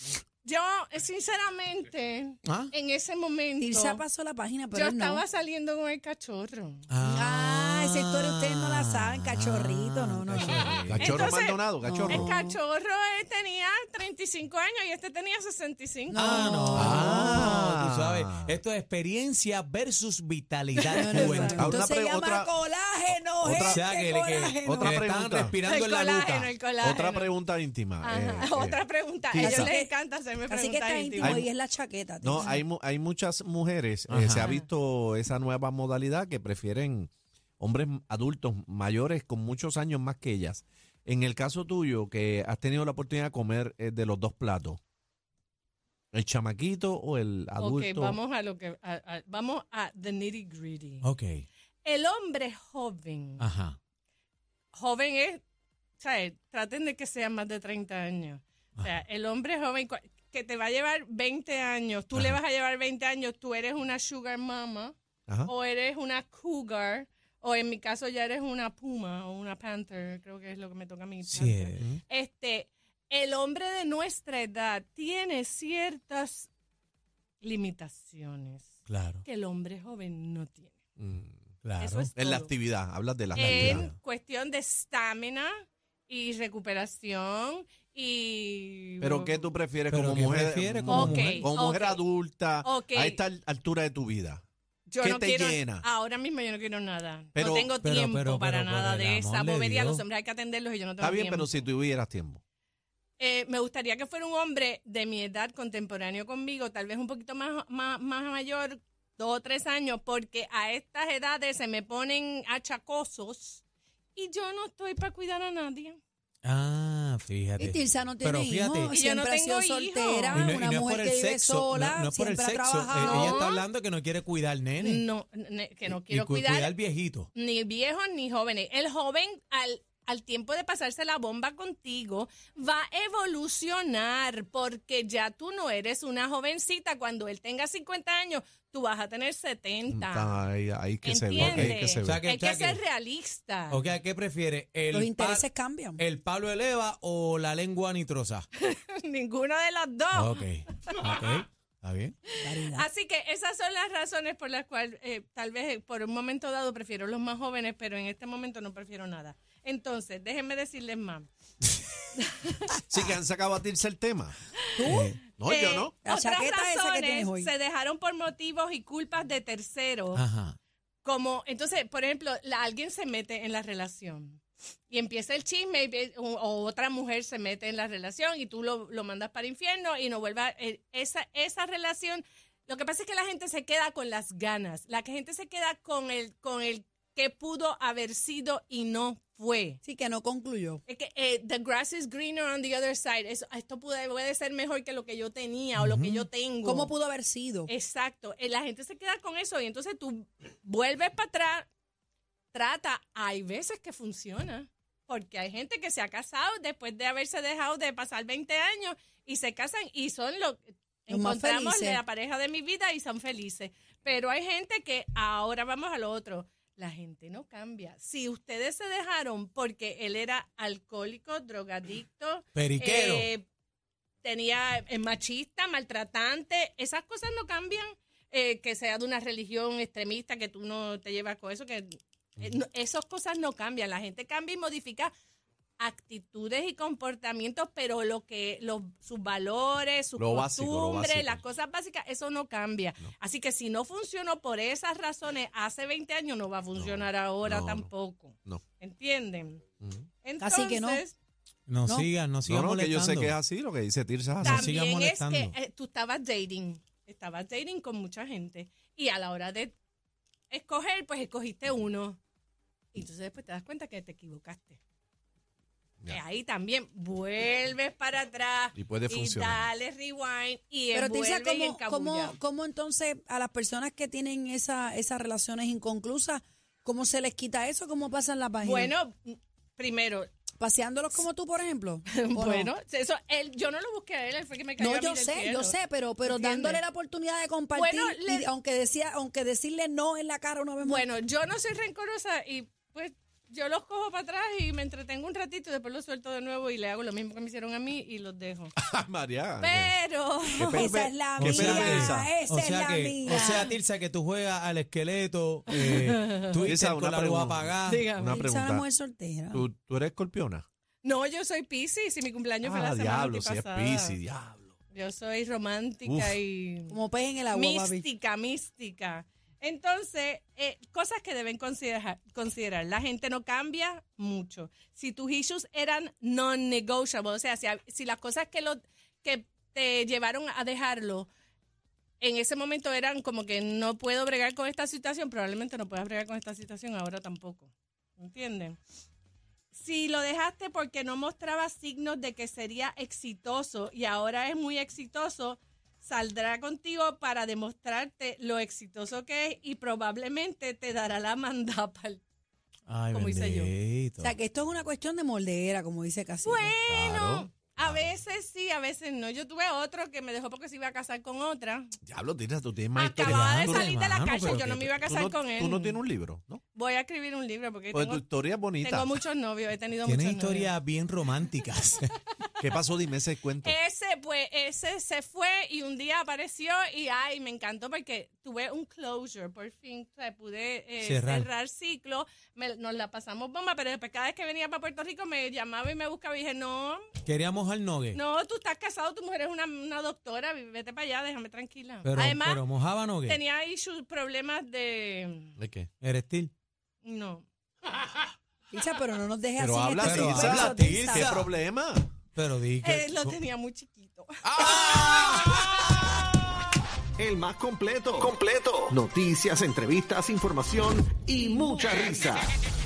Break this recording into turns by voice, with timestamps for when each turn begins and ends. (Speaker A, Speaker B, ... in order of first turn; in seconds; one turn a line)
Speaker A: 0.4-4.0
Speaker B: 2.5-2.7
Speaker C: 3.6-5.2
Speaker A: 4.7-6.9
Speaker B: 6.9-11.2
Speaker C: 7.0-10.8
Speaker D: 10.5-12.3
Speaker A: 11.0-16.7
Speaker C: 11.8-12.6
Speaker C: 16.1-17.6
Speaker B: 16.1-21.9
Speaker D: 16.7-18.6
Speaker A: 20.8-21.6
Speaker C: 21.0-25.0
Speaker D: 21.3-22.5
Speaker D: 23.1-23.9
Speaker B: 23.6-26.6
Speaker D: 24.6-25.6
Speaker A: 25.6-27.3
Speaker D: 26.8-29.7
Speaker A: 28.0-31.4
Speaker C: 29.4-29.9
Speaker C: 30.5-32.5
Speaker D: 31.2-31.5
Speaker D: 32.2-44.8
Speaker B: 34.1-34.5
Speaker D: 46.1-48.2
Speaker A: 47.6-51.0
Speaker B: 51.0-51.5
Speaker A: 51.8-53.4
Speaker B: 53.4-53.8
Speaker A: 54.7-55.4
Speaker A: 56.0-64.9
Speaker B: 58.8-59.0
Speaker B: 62.1-62.4
Speaker D: 65.3-65.5
Speaker A: 65.5-76.5
Speaker B: 71.2-72.0
Speaker A: 77.4-78.7
Speaker B: 78.9-79.2
Speaker A: 79.2-80.7
Speaker D: 81.0-81.4
Speaker B: 81.6-82.1
Speaker A: 81.8-82.5
Speaker D: 82.2-83.9
Speaker A: 83.3-85.5
Speaker B: 83.5-83.9
Speaker A: 86.1-89.5
Speaker D: 89.0-94.4
Speaker B: 89.9-91.5
Speaker A: 90.9-92.0
Speaker A: 92.6-93.2
Speaker A: 94.9-101.5
Speaker D: 95.0-95.9
Speaker D: 97.3-97.7
Speaker B: 97.7-100.0
Speaker D: 101.0-102.4
Speaker A: 103.2-113.6
Speaker A: 114.2-116.0
Speaker B: 116.4-119.0
Speaker C: 117.6-123.5
Speaker A: 118.9-120.6
Speaker B: 120.3-125.1
Speaker A: 123.0-123.7
Speaker A: 124.8-126.7
Speaker B: 125.9-127.3
Speaker A: 127.3-140.4
Speaker D: 139.9-142.2
Speaker A: 141.0-143.8
Speaker B: 141.3-142.8
Speaker B: 143.7-145.4
Speaker C: 144.9-146.0
Speaker B: 146.0-148.5
Speaker A: 148.6-151.1
Speaker B: 150.1-152.2
Speaker C: 152.4-152.9
Speaker A: 152.7-161.3
Speaker A: 162.2-162.7
Speaker D: 162.9-164.4
Speaker C: 164.8-165.2
Speaker B: 164.9-165.2
Speaker D: 165.3-165.9
Speaker A: 165.4-170.2
Speaker C: 166.0-167.5
Speaker B: 170.1-170.6
Speaker A: 171.0-189.8
Speaker C: 189.8-190.8
Speaker A: 190.9-196.9
Speaker B: 195.8-196.3
Speaker C: 196.6-197.7
Speaker A: 197.7-201.7
Speaker A: 202.5-223.5
Speaker C: 211.1-212.0
Speaker B: 222.5-223.3
Speaker A: 224.2-235.1
Speaker A: 235.8-249.6
Speaker D: 240.2-241.4
Speaker D: 246.8-248.6
Speaker A: 250.2-251.2
Speaker C: 250.4-251.0
Speaker B: 251.7-253.4
Speaker D: 252.4-254.7
Speaker B: 254.4-255.6
Speaker A: 254.4-259.8
Speaker A: 260.5-262.2
Speaker A: 262.9-264.8
Speaker A: 266.1-272.4
Speaker D: 268.8-269.7
Speaker C: 270.9-279.0
Speaker A: 278.6-280.3
Speaker C: 280.6-282.7
Speaker A: 282.1-286.8
Speaker C: 284.8-291.1
Speaker A: 287.7-288.5
Speaker A: 290.8-298.7
Speaker D: 298.8-302.3
Speaker A: 299.6-300.9
Speaker C: 300.7-303.7
Speaker B: 301.4-308.1
Speaker A: 303.3-303.7
Speaker A: 305.8-306.7
Speaker D: 306.7-308.9
Speaker A: 307.9-308.4
Speaker C: 308.2-309.6
Speaker D: 309.5-310.6
Speaker A: 311.0-314.2
Speaker D: 312.6-314.7
Speaker A: 314.9-317.0
Speaker D: 316.1-316.4
Speaker C: 316.9-318.1
Speaker A: 317.5-331.3
Speaker A: 332.2-338.8
Speaker A: 339.7-352.2
Speaker B: 352.9-354.3
Speaker A: 353.1-353.7
Speaker C: 354.2-356.7
Speaker A: 356.4-361.9
Speaker D: 356.9-358.2
Speaker D: 362.0-366.6
Speaker A: 362.9-366.0
Speaker B: 363.2-365.0
Speaker A: 366.8-368.2
Speaker D: 367.9-369.2
Speaker A: 368.8-370.7
Speaker B: 370.0-372.1
Speaker D: 372.6-373.8
Speaker A: 373.6-387.1
Speaker B: 381.0-381.5
Speaker B: 387.2-388.2
Speaker A: 388.1-392.6
Speaker B: 392.0-393.4
Speaker A: 393.2-395.6
Speaker D: 395.6-395.9
Speaker B: 396.0-396.5
Speaker A: 397.0-397.5
Speaker C: 398.7-401.4
Speaker D: 399.6-402.1
Speaker B: 400.0-401.5
Speaker B: 402.4-403.4
Speaker A: 402.8-404.9
Speaker E: 404.6-405.3
Speaker B: 404.7-405.3
Speaker E: 407.2-412.5